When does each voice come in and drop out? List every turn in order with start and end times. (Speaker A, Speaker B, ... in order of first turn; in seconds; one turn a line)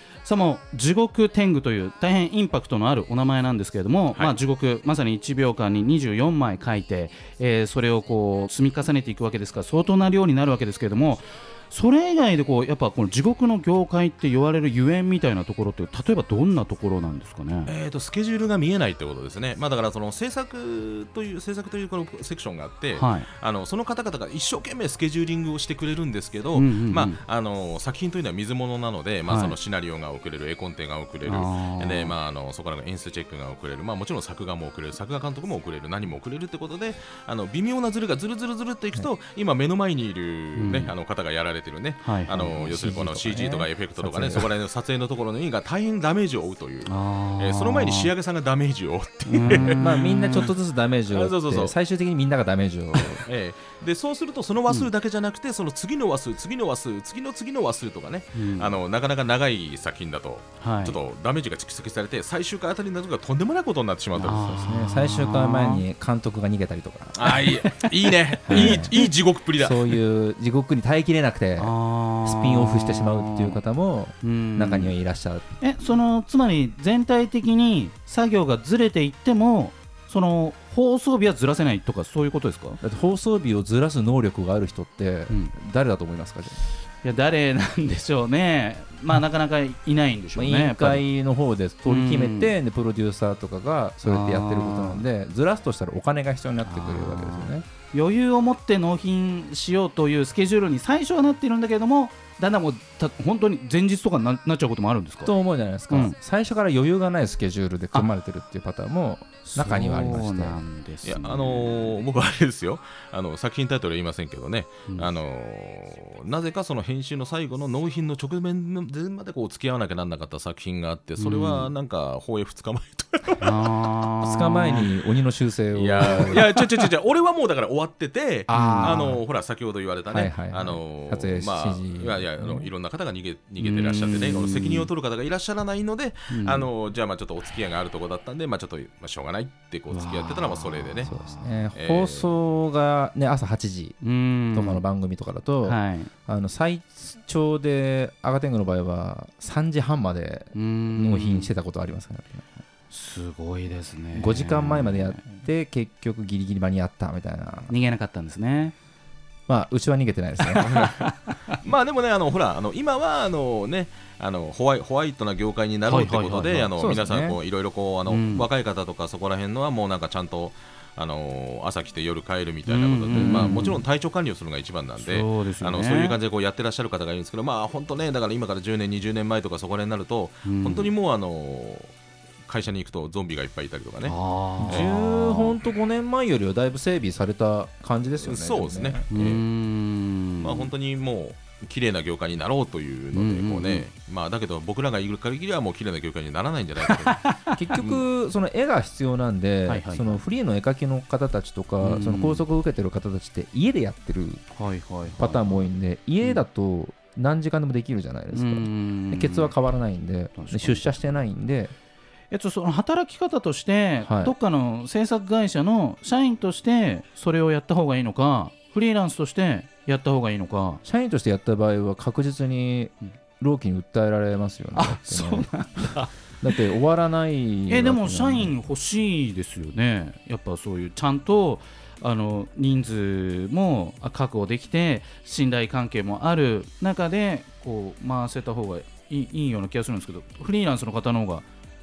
Speaker A: 0.2-17.7
Speaker B: 17.6-51.8
Speaker A: 22.9-23.3
Speaker A: 26.5-27.2
Speaker A: 29.3-29.6
Speaker A: 31.2-32.1
Speaker A: 40.5-40.9
Speaker A: 42.0-42.7
Speaker C: 42.5-44.5
Speaker A: 46.9-48.1
Speaker A: 49.3-50.5
Speaker C: 49.5-53.2
Speaker B: 53.2-64.5
Speaker A: 58.3-58.8
Speaker A: 60.6-61.0
Speaker A: 64.2-65.8
Speaker C: 64.3-67.5
Speaker B: 67.2-70.0
Speaker A: 67.3-69.0
Speaker C: 68.5-71.7
Speaker A: 71.6-73.6
Speaker C: 72.2-75.4
Speaker A: 74.2-75.0
Speaker A: 75.6-82.8
Speaker C: 82.8-86.7
Speaker A: 85.3-85.5
Speaker A: 87.0-91.0
Speaker C: 90.4-97.6
Speaker A: 91.9-92.5
Speaker A: 94.0-95.0
Speaker A: 96.6-105.3
Speaker C: 105.2-110.6
Speaker A: 105.9-106.2
Speaker A: 109.5-112.0
Speaker B: 111.0-123.5
Speaker A: 121.2-121.7
Speaker A: 123.4-124.9
Speaker C: 124.2-126.5
Speaker B: 125.7-141.1
Speaker C: 128.5-129.2
Speaker A: 128.5-129.1
Speaker C: 130.1-132.7
Speaker A: 133.6-134.9
Speaker A: 136.3-136.7
Speaker A: 139.9-141.6
Speaker C: 141.0-144.0
Speaker B: 141.7-142.3
Speaker A: 144.0-144.8
Speaker C: 144.5-152.5
Speaker A: 145.6-146.1
Speaker A: 150.5-151.5
Speaker A: 152.9-155.4
Speaker C: 154.1-157.7
Speaker A: 157.7-158.7
Speaker C: 159.5-160.9
Speaker A: 160.5-161.5
Speaker B: 161.5-181.9
Speaker A: 165.9-166.7
Speaker C: 166.8-167.4
Speaker A: 168.1-168.5
Speaker A: 172.7-173.8
Speaker C: 173.1-173.6
Speaker A: 175.0-176.2
Speaker A: 180.4-180.9
Speaker B: 182.5-185.6
Speaker A: 184.0-184.9
Speaker C: 184.6-189.0
Speaker B: 188.2-189.4
Speaker A: 189.1-190.7
Speaker B: 190.4-197.2
Speaker A: 193.1-193.9
Speaker A: 196.9-198.0
Speaker C: 197.6-204.4
Speaker A: 199.7-200.2
Speaker A: 201.8-202.5
Speaker A: 204.5-206.4
Speaker C: 205.2-211.7
Speaker A: 208.3-209.5
Speaker A: 210.3-211.1
Speaker A: 212.3-220.8
Speaker C: 214.0-214.3
Speaker C: 220.8-228.5
Speaker A: 224.7-226.5
Speaker A: 227.7-241.5